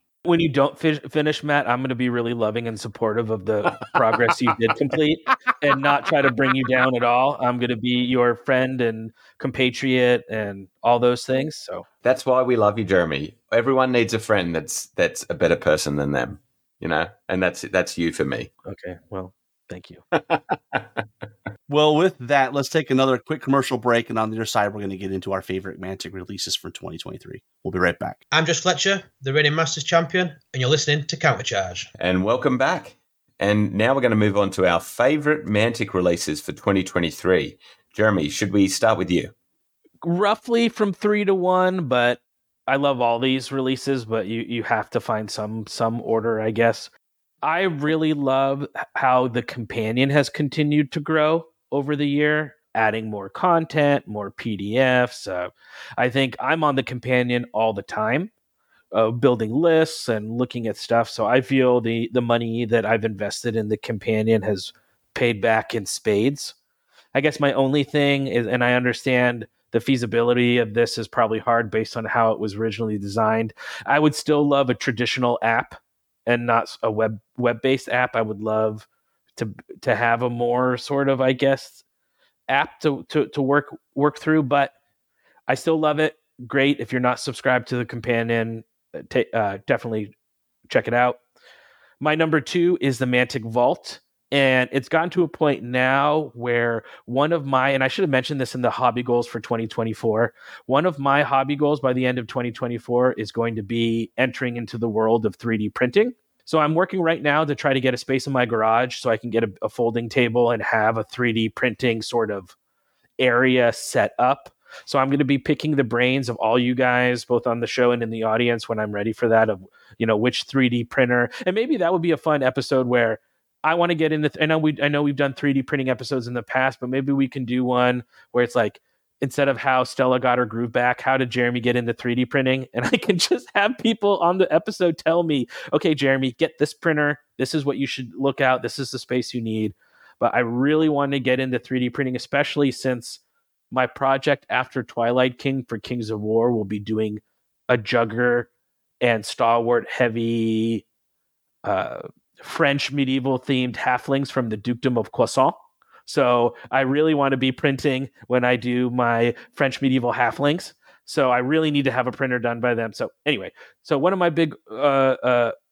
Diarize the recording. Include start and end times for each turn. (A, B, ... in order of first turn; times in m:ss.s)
0:00.3-0:11.9 A
0:12.0-0:18.5 B
0:18.7-0:20.0 A
0:20.1-0:20.8 B
0:21.7-0:28.2 C
0:28.3-0:31.9 D
0:32.0-0:39.3 B
0:40.0-0:46.9 A
0:47.4-0:58.3 A
0:58.9-1:06.5 A
1:07.2-1:21.8 A
1:22.5-1:24.7 A
1:25.5-1:30.1 A
1:30.7-1:31.2 A
1:32.0-1:52.5 A
1:53.2-2:23.2 A
2:23.7-2:28.5 A
2:29.0-2:30.8 A
2:31.6-2:45.5 A